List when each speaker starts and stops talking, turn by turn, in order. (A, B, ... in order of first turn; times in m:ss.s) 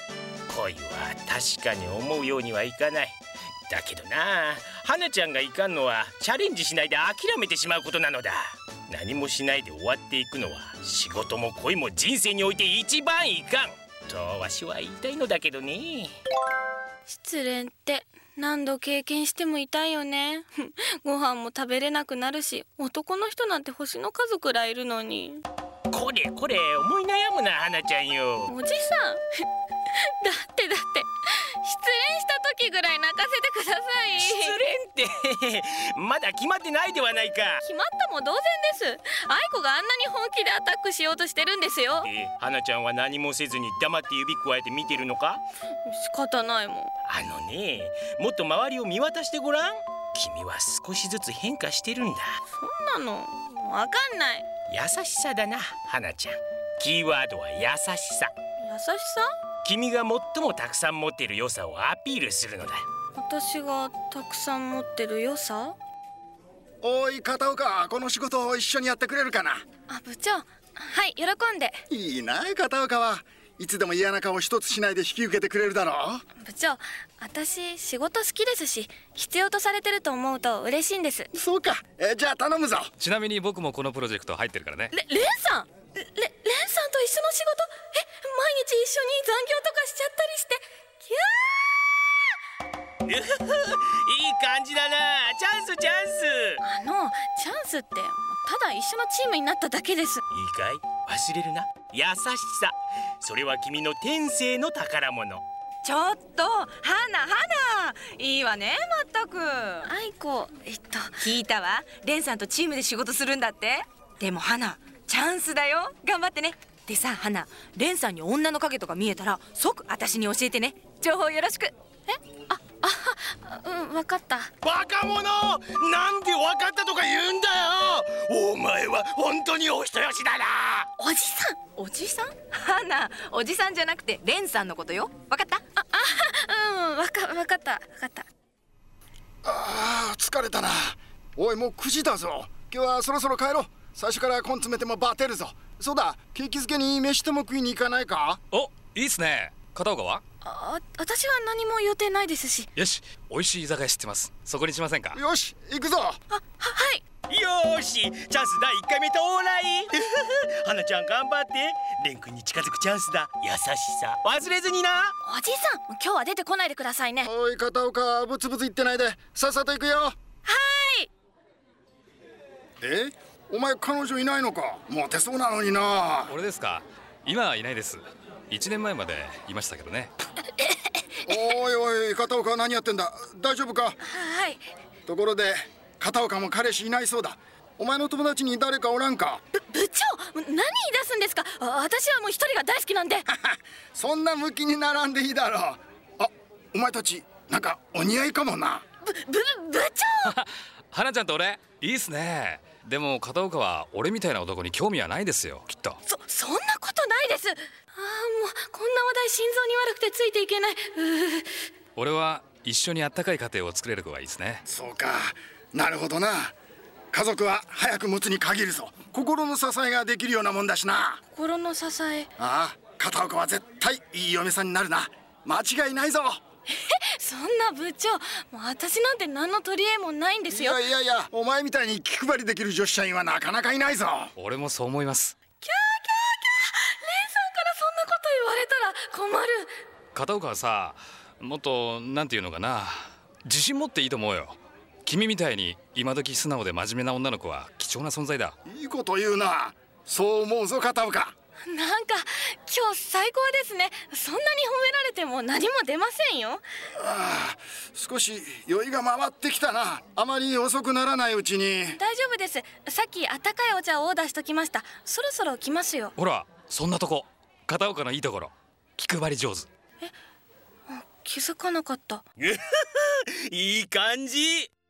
0:00.5-0:03.2 A
0:03.7-0:16.1 A
0:17.1-0:25.4 B
0:25.9-0:28.5 A
0:28.5-0:29.2 B
0:30.0-0:34.6 B
0:34.2-0:37.6 A
0:37.6-0:42.1 B
0:42.0-0:45.4 A
0:45.8-0:46.9 B
0:47.1-0:52.3 A
0:52.5-0:54.4 B
0:54.7-0:58.3 A
0:58.6-0:59.3 B
0:59.6-1:02.8 A
1:03.1-1:05.8 B
1:06.8-1:09.6 C
1:09.9-1:11.8 B
1:11.9-1:16.2 C
1:16.4-1:21.3 B
1:21.3-1:22.9 C
1:23.0-1:24.9 D
1:24.9-1:31.8 B
1:33.0-1:36.6 A
1:36.6-1:40.2 B
1:40.3-1:45.4 A
1:45.8-1:49.9 E
1:49.8-1:51.2 B
1:51.2-2:01.7 E
2:02.1-2:04.5 B
2:04.6-2:10.9 A
2:11.0-2:11.6 B
2:11.8-2:15.6 E
2:15.8-2:18.3 B
2:19.4-2:28.4 C
2:28.5-2:30.2 D
2:30.4-2:32.7 B
2:32.8-2:35.2 D
2:35.1-2:36.2 C
2:36.3-2:37.0 B
2:37.3-2:45.1 A
2:45.2-2:47.3 B
2:47.2-2:50.2 C
2:50.4-2:51.1 B
2:52.8-2:56.3 C
2:56.3-3:00.1 D
3:00.6-3:01.4 B
3:01.2-3:04.0 C
3:04.0-3:04.6 B
3:05.0-3:09.4 C
3:09.5-3:13.2 B
3:13.3-3:18.8 C
3:19.0-3:20.4 B
3:20.2-3:26.0 D
3:26.0-3:31.5 B
3:32.0-3:34.6 D
3:34.7-3:36.5 C
3:37.1-3:41.2 C
3:41.3-3:42.3 B
3:42.4-3:46.4 C
3:46.7-3:50.9 B
3:50.5-3:54.3 C
3:54.4-3:55.4 D
3:55.6-3:59.7 B
4:00.1-4:08.6 D
4:08.6-4:11.3 C
4:11.6-4:16.6 B
4:17.0-4:22.0 C
4:21.9-4:26.1 B
4:26.2-4:29.7 D
4:30.9-4:32.2 B
4:32.4-4:34.7 A